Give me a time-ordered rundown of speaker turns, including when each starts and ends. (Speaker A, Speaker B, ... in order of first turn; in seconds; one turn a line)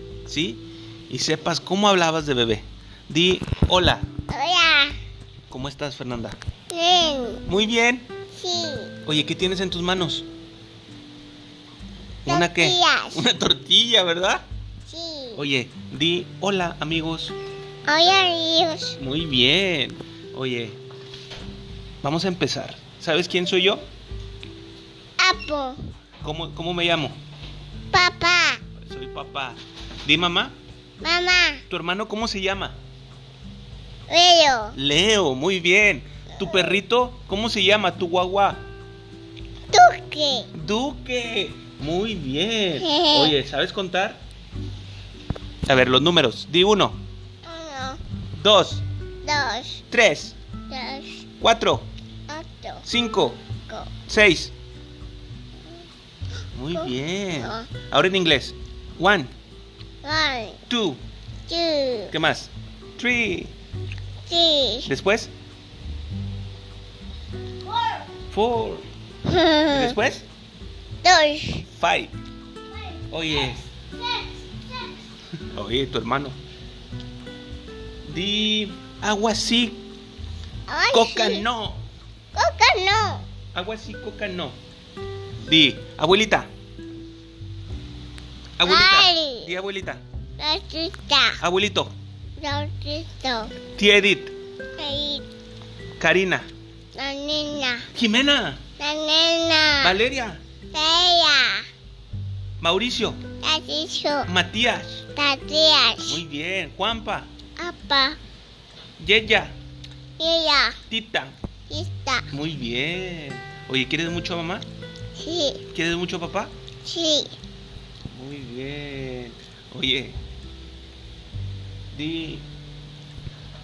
Speaker A: 0.2-4.1
Speaker B: 4.3-4.9
Speaker A: 5.5-6.4
Speaker B: 6.7-7.4
Speaker A: 7.5-8.1
Speaker B: 8.3-8.9
Speaker A: 9.1-10.3
Speaker A: 12.2-14.4
Speaker B: 12.3-13.2
Speaker B: 14.8-15.4
Speaker A: 15.3-17.4
Speaker B: 17.9-19.0
Speaker A: 19.0-20.8
Speaker A: 22.0-23.8
Speaker B: 25.2-25.8
Speaker A: 26.2-27.2
Speaker B: 27.9-28.6
Speaker A: 28.8-30.6
Speaker B: 31.0-31.6
Speaker A: 31.7-32.8
Speaker B: 34.1-34.8
Speaker A: 34.7-38.6
Speaker B: 36.4-36.8
Speaker B: 39.7-40.5
Speaker A: 40.5-44.2
Speaker B: 42.8-43.3
Speaker A: 45.7-47.0
Speaker B: 47.4-48.0
Speaker A: 48.4-48.8
Speaker B: 49.2-49.8
Speaker A: 49.9-50.4
Speaker B: 50.7-51.2
Speaker A: 51.4-51.9
Speaker B: 52.3-52.8
Speaker A: 52.9-53.4
Speaker A: 54.1-54.5
Speaker A: 56.5-59.3
Speaker B: 56.7-57.7
Speaker B: 60.0-60.6
Speaker A: 60.7-61.0
Speaker B: 61.5-62.1
Speaker A: 62.1-63.5
Speaker B: 64.3-64.9
Speaker A: 64.9-65.3
Speaker A: 68.3-68.8
Speaker B: 69.2-70.0
Speaker A: 69.7-70.2
Speaker B: 71.0-71.6
Speaker A: 71.7-72.1
Speaker A: 73.1-73.6
Speaker B: 73.4-74.7
Speaker A: 75.4-76.4
Speaker A: 78.0-79.8
Speaker B: 80.7-81.4
Speaker A: 80.9-81.8
Speaker B: 82.3-83.2
Speaker A: 83.5-84.5
Speaker A: 85.4-86.5
Speaker A: 88.6-90.0
Speaker B: 88.6-89.5
Speaker B: 90.4-91.4
Speaker A: 91.4-91.9
Speaker B: 92.4-93.5
Speaker A: 93.8-94.3
Speaker B: 94.8-95.2
Speaker A: 96.0-96.5
Speaker B: 96.9-97.9
Speaker A: 97.9-98.6
Speaker B: 98.8-100.0
Speaker A: 99.8-100.4
Speaker B: 100.7-101.7
Speaker A: 102.6-103.2
Speaker B: 103.4-104.3
Speaker A: 104.3-105.0
Speaker B: 105.1-106.2
Speaker A: 106.0-107.3
Speaker B: 107.6-108.2
Speaker A: 109.0-109.5
Speaker B: 110.2-110.8
Speaker A: 110.9-111.3
Speaker B: 111.7-112.3
Speaker A: 112.3-114.6
Speaker B: 115.2-115.6
Speaker A: 115.7-116.5
Speaker B: 116.8-117.3
Speaker A: 118.1-120.2
Speaker A: 121.9-122.4